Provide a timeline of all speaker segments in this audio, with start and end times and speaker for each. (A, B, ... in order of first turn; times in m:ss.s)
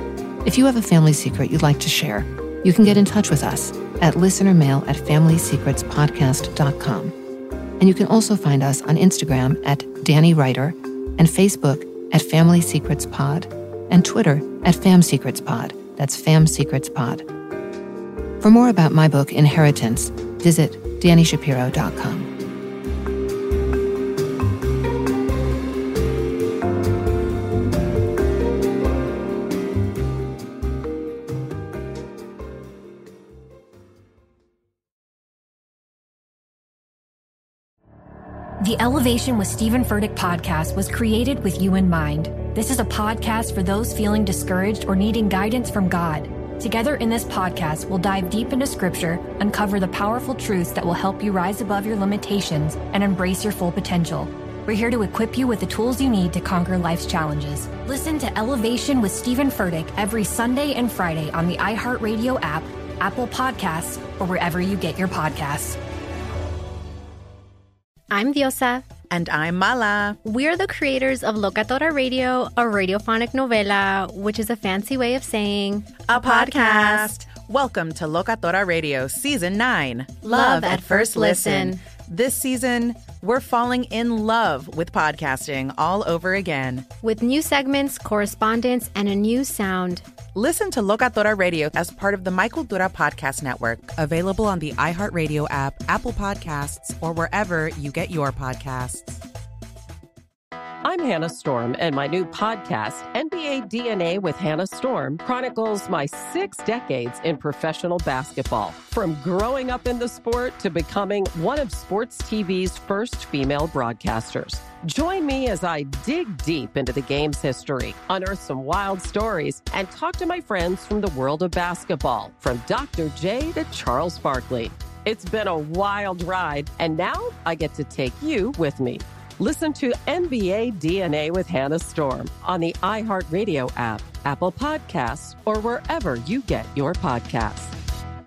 0:00.4-0:07.1 A
0:07.8-0:17.3 A
0:18.4-0:22.3 A
0:38.6-1:05.8 B
1:08.1-1:08.9 C
1:09.1-1:10.2 D
1:10.2-1:17.0 C
1:16.0-1:26.8 D
1:20.2-1:21.8 C
1:27.0-1:30.0 C
1:30.3-1:39.2 D
1:40.8-2:17.7 E